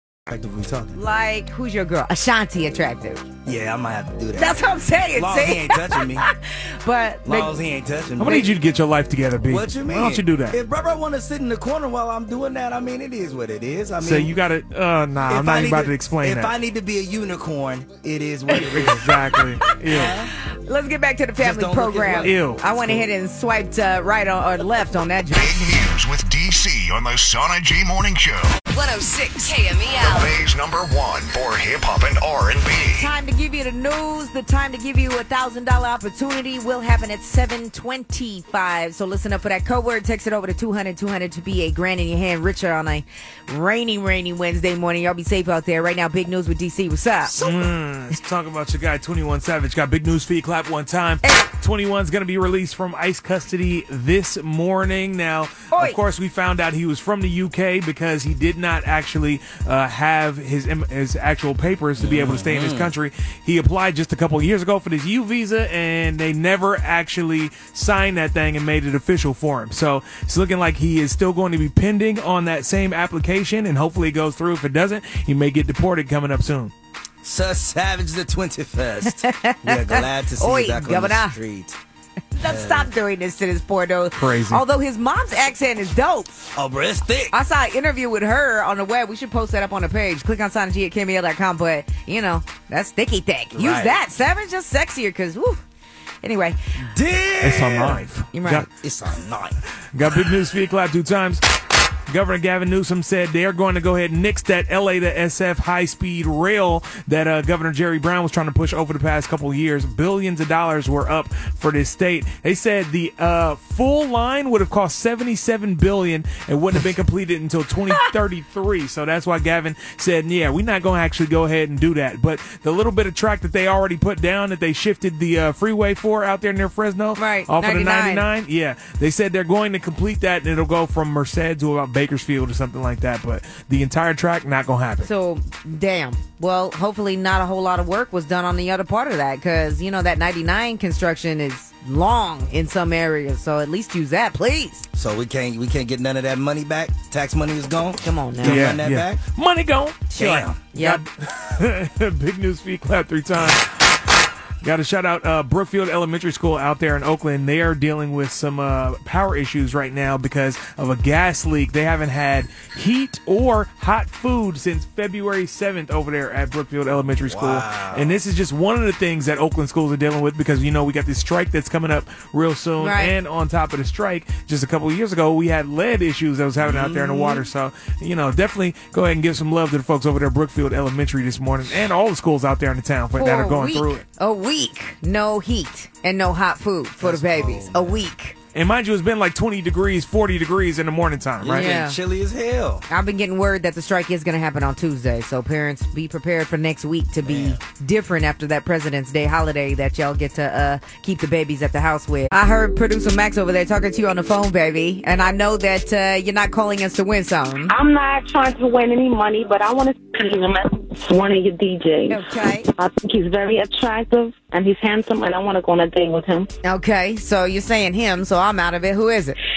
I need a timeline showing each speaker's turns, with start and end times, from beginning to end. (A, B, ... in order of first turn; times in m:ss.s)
0:00.3-0:01.0 A
0:00.9-0:03.2 B
0:03.4-0:06.2 A
0:04.4-0:07.6 B
0:07.2-0:08.5 A
0:08.2-0:10.6 C
0:08.2-0:08.5 B
0:09.5-0:14.3 A
0:14.0-0:16.5 C
0:15.3-0:19.0 A
0:18.5-0:20.1 C
0:19.8-0:20.3 A
0:19.9-0:25.9 B
0:21.4-0:23.0 A
0:22.2-0:22.6 C
0:25.3-0:28.6 D
0:28.7-0:30.3 B
0:30.0-0:33.1 D
0:32.9-0:47.4 B
0:47.3-1:16.7 C
0:47.4-0:47.7 A
0:51.2-0:51.5 B
0:55.7-0:56.0 B
1:02.0-1:02.9 A
1:17.2-1:21.8 A
1:19.1-1:21.4 B
1:22.3-1:26.4 B
1:22.4-1:22.9 A
1:24.2-1:24.6 C
1:26.5-1:27.3 A
1:27.3-1:35.6 B
1:33.5-1:34.0 A
1:36.2-1:36.6 B
1:36.8-1:38.0 A
1:37.4-1:38.7 C
1:38.3-1:38.6 B
1:38.8-1:39.6 A
1:39.9-1:41.4 C
1:42.1-2:15.1 C
2:07.2-2:08.2 B
2:15.0-2:24.8 B
2:24.9-2:29.2 A
2:28.0-2:28.6 B
2:28.4-2:33.8 C
2:30.1-2:31.0 B
2:30.2-2:30.6 A
2:34.6-3:04.0 C
2:47.2-2:48.2 A
2:52.8-2:53.1 B
2:56.6-2:57.4 A
3:03.2-3:08.4 B
3:07.0-3:08.1 A
3:08.5-3:11.7 C
3:11.4-3:12.8 A
3:11.4-3:12.0 B
3:12.9-3:27.7 B
3:17.2-3:17.6 A
3:27.8-3:32.1 E
3:32.1-3:32.7 B
3:32.8-3:36.5 E
3:36.6-3:39.4 B